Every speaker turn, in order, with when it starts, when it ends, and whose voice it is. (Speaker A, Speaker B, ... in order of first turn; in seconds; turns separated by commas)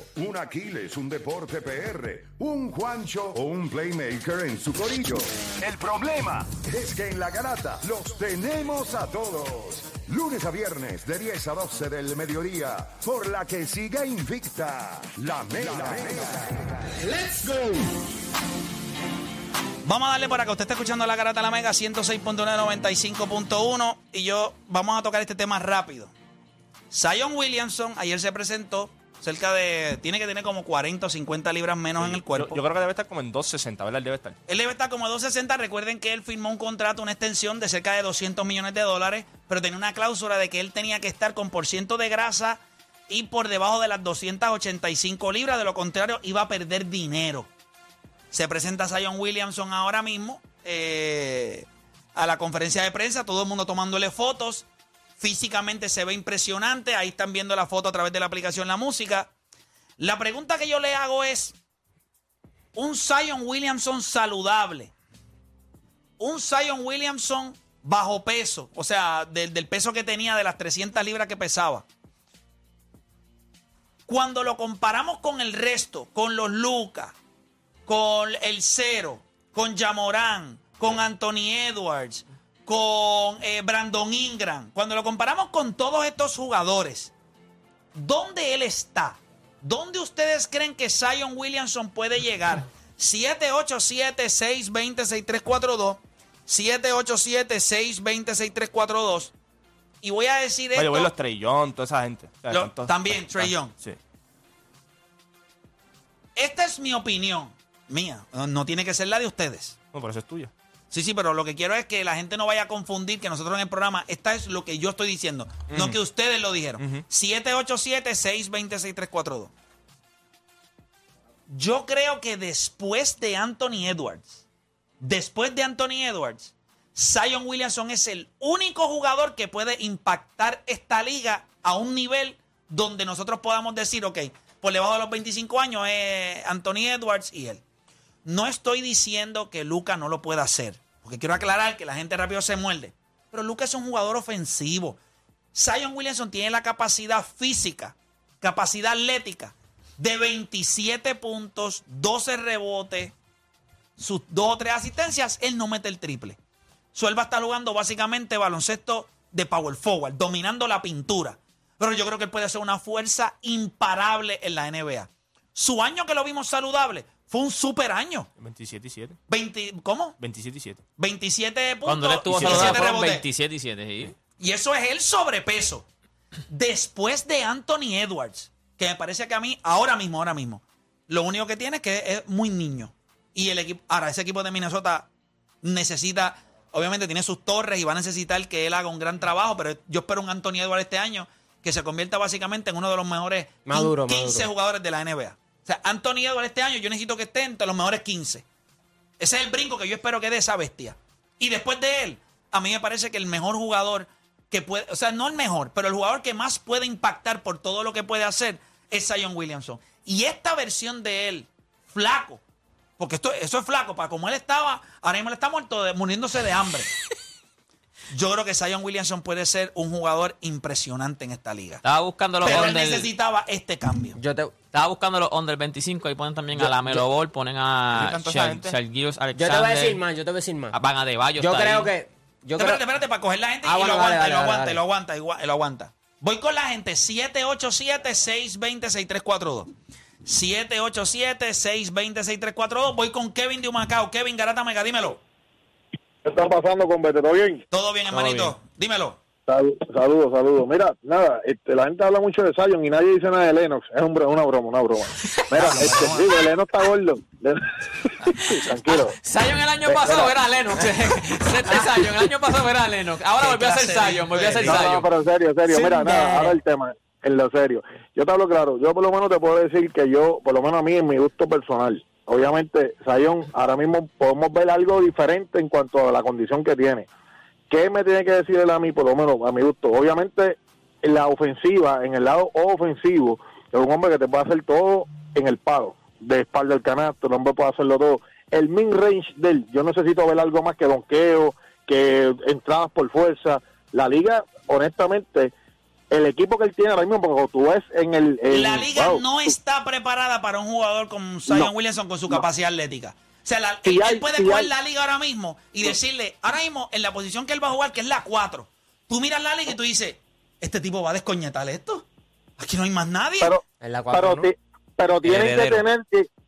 Speaker A: 0.1-16.8, Speaker B: 19.8-26.1, Speaker B: 26.9-32.6, Speaker C: 32.0-34.4, Speaker B: 34.5-47.5, Speaker B: 48.3-54.6, Speaker B: 55.2-59.3, Speaker B: 60.0-61.5, Speaker B: 62.7-64.9, Speaker B: 66.2-71.8, Speaker B: 74.1-77.1, Speaker B: 77.8-87.1, Speaker B: 87.9-99.3, Speaker B: 100.0-101.1, Speaker C: 100.7-104.0, Speaker B: 102.5-103.7, Speaker B: 106.3-109.8, Speaker C: 109.9-110.5, Speaker B: 110.9-119.5, Speaker B: 121.5-124.4, Speaker B: 125.0-137.6, Speaker B: 138.2-145.0, Speaker B: 145.5-153.1, Speaker B: 154.0-156.4, Speaker B: 156.9-168.3, Speaker C: 168.4-169.2, Speaker B: 169.3-170.2, Speaker C: 170.2-170.8, Speaker B: 171.0-173.2, Speaker D: 171.8-174.1, Speaker C: 172.3-172.8, Speaker B: 174.4-175.8, Speaker B: 176.5-185.1, Speaker B: 185.6-198.4, Speaker E: 193.7-194.5, Speaker B: 199.2-212.4, Speaker B: 213.0-216.9, Speaker B: 218.1-221.8, Speaker D: 221.8-223.1, Speaker B: 222.4-224.2, Speaker E: 224.2-224.5, Speaker D: 224.7-230.0, Speaker E: 226.6-227.0, Speaker C: 227.9-228.8, Speaker E: 229.3-230.7, Speaker D: 230.7-231.9, Speaker E: 231.4-232.8, Speaker B: 232.6-239.7, Speaker E: 233.6-234.8, Speaker B: 240.2-245.2, Speaker F: 246.2-247.6, Speaker B: 247.7-249.2, Speaker F: 249.5-259.2, Speaker B: 255.5-256.4, Speaker D: 258.9-265.1, Speaker F: 259.9-260.4, Speaker B: 263.4-264.9, Speaker F: 264.6-277.1, Speaker E: 265.7-266.6, Speaker F: 277.7-295.5, Speaker F: 296.1-299.2, Speaker B: 298.5-312.0, Speaker F: 303.9-304.7, Speaker B: 312.6-313.5, Speaker F: 313.4-316.3, Speaker E: 313.8-314.5, Speaker D: 315.2-315.8